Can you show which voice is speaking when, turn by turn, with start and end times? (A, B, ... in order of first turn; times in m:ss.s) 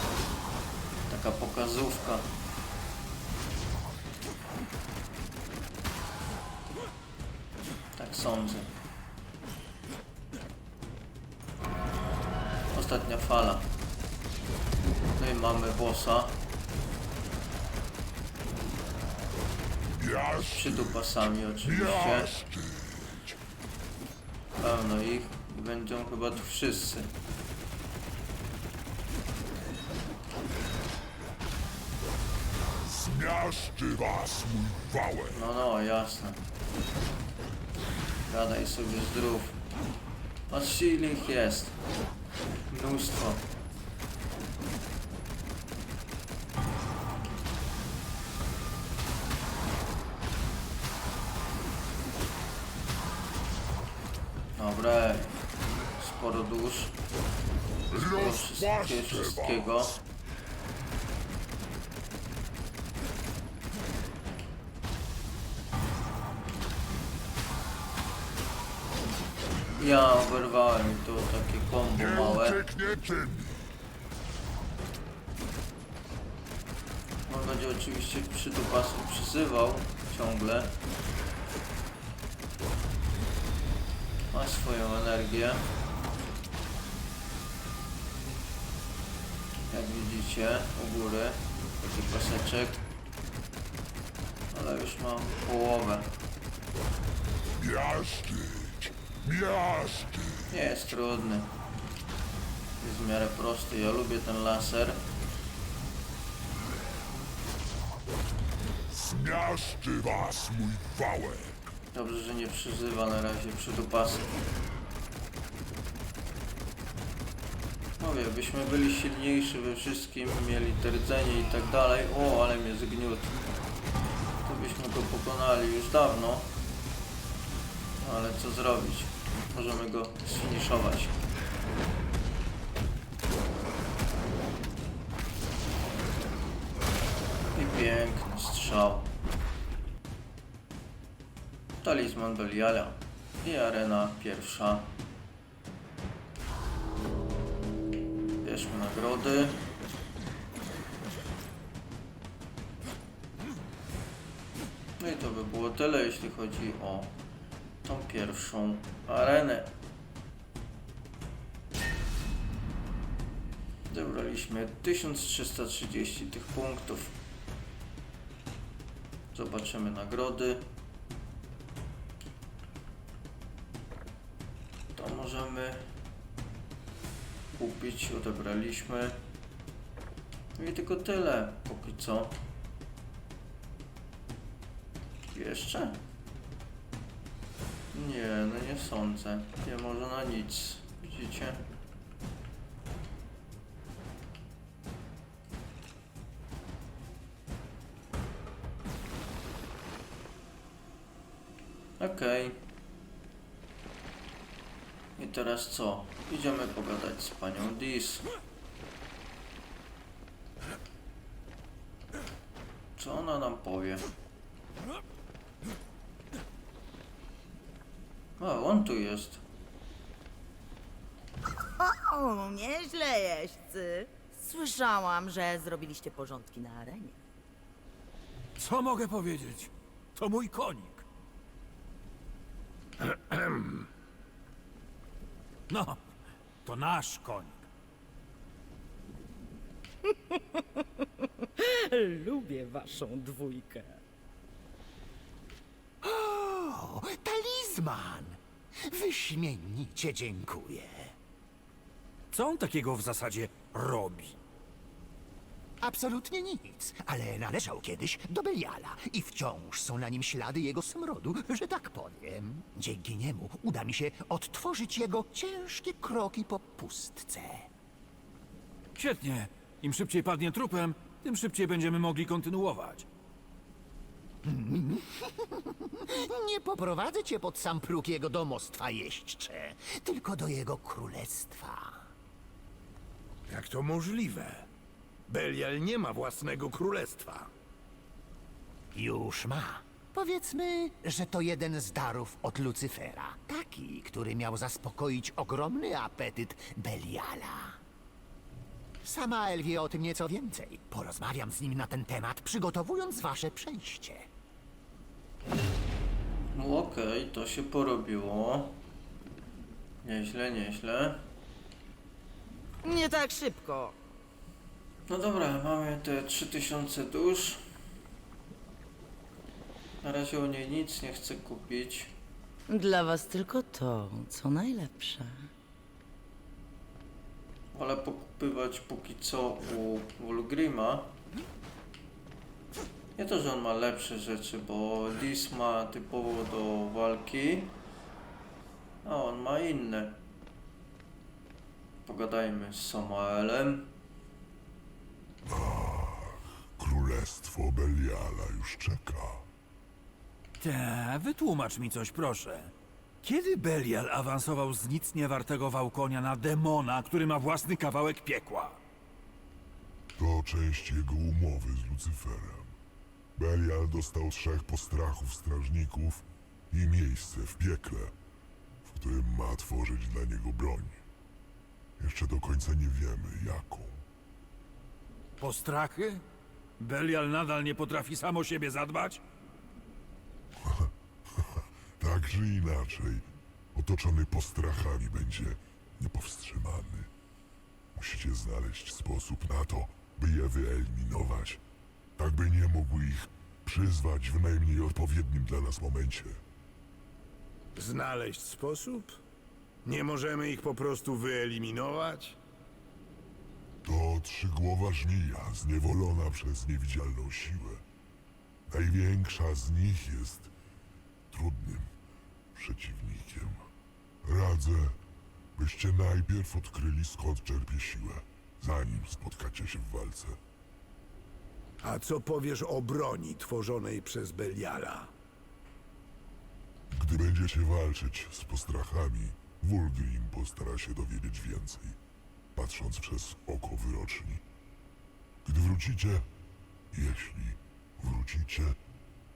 0:01.1-0:02.3 A
0:08.0-0:08.7 A
0:12.7-0:13.7 A
0:15.2-0:16.4 A
0:20.0-0:20.8 B
0:20.5-0:22.3 A
0:21.7-0:23.2 B
0:24.6-0:27.1 A
0:32.9-0:35.3 B
0:35.3-0:36.4 A
0:38.3-0:39.6 A
0:40.5-0:41.8 A
0:42.7-0:43.5 A
0:54.6-0:55.4 A
0:55.9-0:57.0 A
0:57.9-0:59.5 B
0:57.9-1:00.0 A
1:09.8-1:12.6 A
1:12.1-1:13.6 B
1:17.3-1:20.7 A
1:24.3-1:25.7 A
1:29.7-1:32.8 A
1:34.5-1:36.1 A
1:37.6-1:40.4 B
1:40.5-1:41.5 A
1:42.8-1:45.0 A
1:48.9-1:51.6 B
1:51.9-1:54.4 A
1:58.0-2:03.4 A
2:04.4-2:06.5 A
2:08.0-2:11.2 A
2:17.6-2:19.1 A
2:21.8-2:25.0 A
2:28.4-2:29.6 A
2:35.0-2:37.1 A
2:37.8-2:39.7 A
2:43.9-2:47.2 A
2:49.3-2:50.6 A
2:55.0-2:55.8 A
2:57.6-2:59.2 A
3:00.6-3:02.4 A
3:05.3-3:06.0 A
3:07.9-3:11.6 A
3:22.0-3:22.6 A
3:25.2-3:28.3 A
3:33.0-3:34.1 A
3:38.4-3:39.4 A
3:41.8-3:47.2 C
3:48.6-3:51.0 D
3:53.1-3:53.8 E
3:55.7-3:56.0 D
3:56.6-3:57.6 D
4:00.1-4:00.8 C
4:01.6-4:04.0 C
4:06.0-4:11.1 F
4:12.3-4:14.4 D
4:15.8-4:27.7 F
4:29.0-4:33.1 D
4:34.4-4:42.1 F
4:43.5-4:44.7 E
4:45.3-4:47.5 E
4:48.9-4:57.8 F
4:59.0-5:04.3 F
5:06.5-5:08.8 A
5:10.0-5:11.2 A
5:12.8-5:14.0 C
5:15.1-5:17.6 A
5:20.0-5:22.1 A
5:22.7-5:25.5 C
5:27.7-5:31.2 A
5:33.2-5:37.8 A
5:39.0-5:40.2 A
5:42.0-5:43.9 A
5:45.5-5:49.5 B
5:50.6-5:58.8 D
6:00.2-6:02.7 B
6:03.4-6:08.1 B
6:08.8-6:11.0 B
6:12.0-6:14.0 B
6:15.4-6:16.2 D
6:16.8-6:19.2 D
6:20.6-6:27.1 B
6:28.0-6:31.6 B
6:32.2-6:36.4 B
6:37.8-6:39.2 E
6:39.8-6:42.4 E
6:43.8-6:47.8 B
6:48.7-6:50.5 B
6:51.3-6:51.9 B
6:52.5-6:53.7 B
6:54.2-6:55.0 B
6:55.6-7:00.4 B
7:01.8-7:05.1 E
7:06.9-7:12.0 B
7:12.6-7:14.4 B
7:15.4-7:16.2 B
7:16.9-7:18.8 B